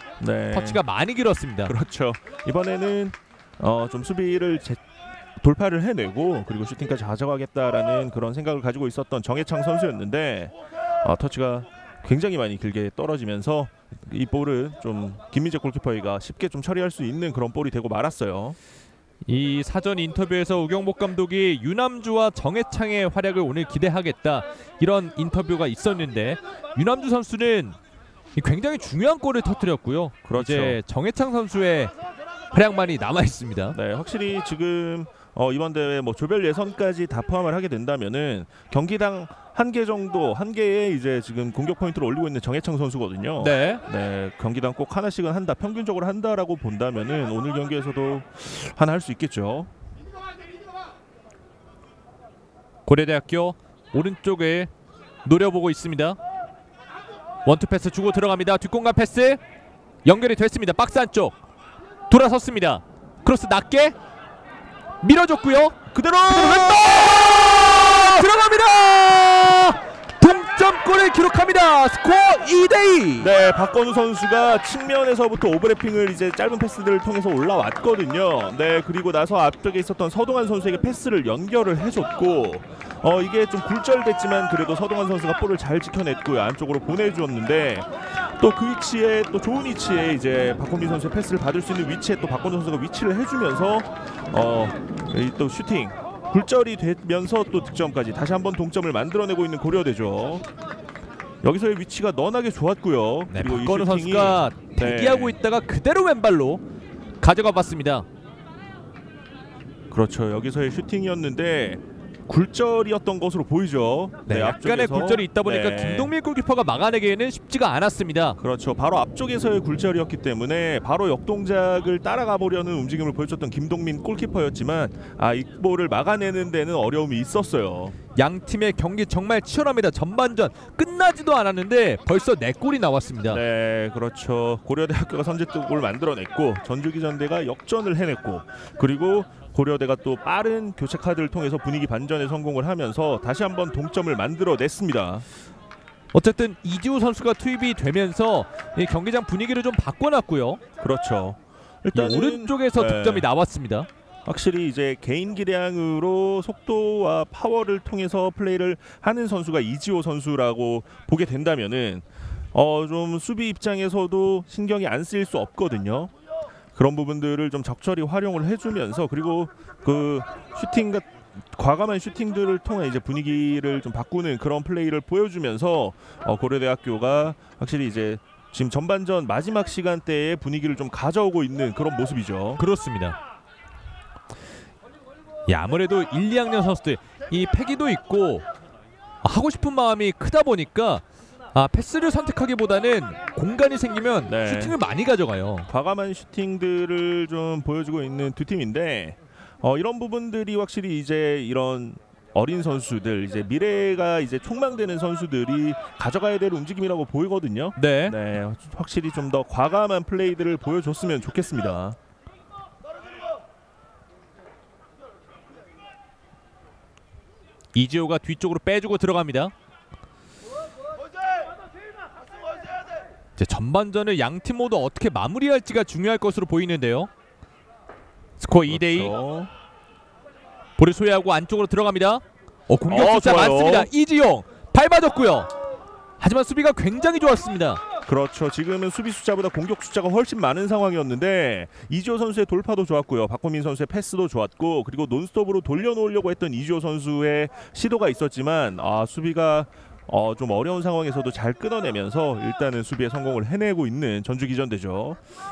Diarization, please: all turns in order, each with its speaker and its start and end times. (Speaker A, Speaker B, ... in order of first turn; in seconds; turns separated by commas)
Speaker A: 0.2-0.8, Speaker B: 0.5-1.7, Speaker A: 1.7-4.8, Speaker A: 5.4-18.6, Speaker B: 19.3-27.8, Speaker B: 28.4-31.9, Speaker A: 30.2-30.8, Speaker B: 32.5-33.8, Speaker A: 33.7-49.7, Speaker B: 43.4-43.8, Speaker B: 52.9-54.7, Speaker B: 55.2-56.2, Speaker B: 57.5-59.4, Speaker B: 60.0-61.4, Speaker B: 62.1-64.0, Speaker B: 65.0-73.3, Speaker A: 65.9-68.0, Speaker A: 73.2-100.5, Speaker A: 101.4-105.3, Speaker B: 103.3-106.6, Speaker B: 107.2-108.1, Speaker A: 109.9-116.1, Speaker B: 114.3-118.4, Speaker A: 118.4-128.0, Speaker B: 128.2-133.4, Speaker A: 133.3-145.2, Speaker B: 146.1-150.6, Speaker A: 150.8-153.3, Speaker B: 151.9-153.9, Speaker A: 154.2-166.1, Speaker A: 166.8-182.6, Speaker B: 182.6-183.2, Speaker B: 185.5-188.5, Speaker B: 189.2-195.7, Speaker A: 194.3-194.8, Speaker A: 195.7-212.0, Speaker B: 207.8-208.2, Speaker B: 217.7-219.5, Speaker B: 223.4-227.1, Speaker B: 228.4-229.1, Speaker A: 228.7-229.5, Speaker B: 230.8-235.5, Speaker A: 232.9-233.9, Speaker B: 236.2-237.8, Speaker A: 238.1-255.2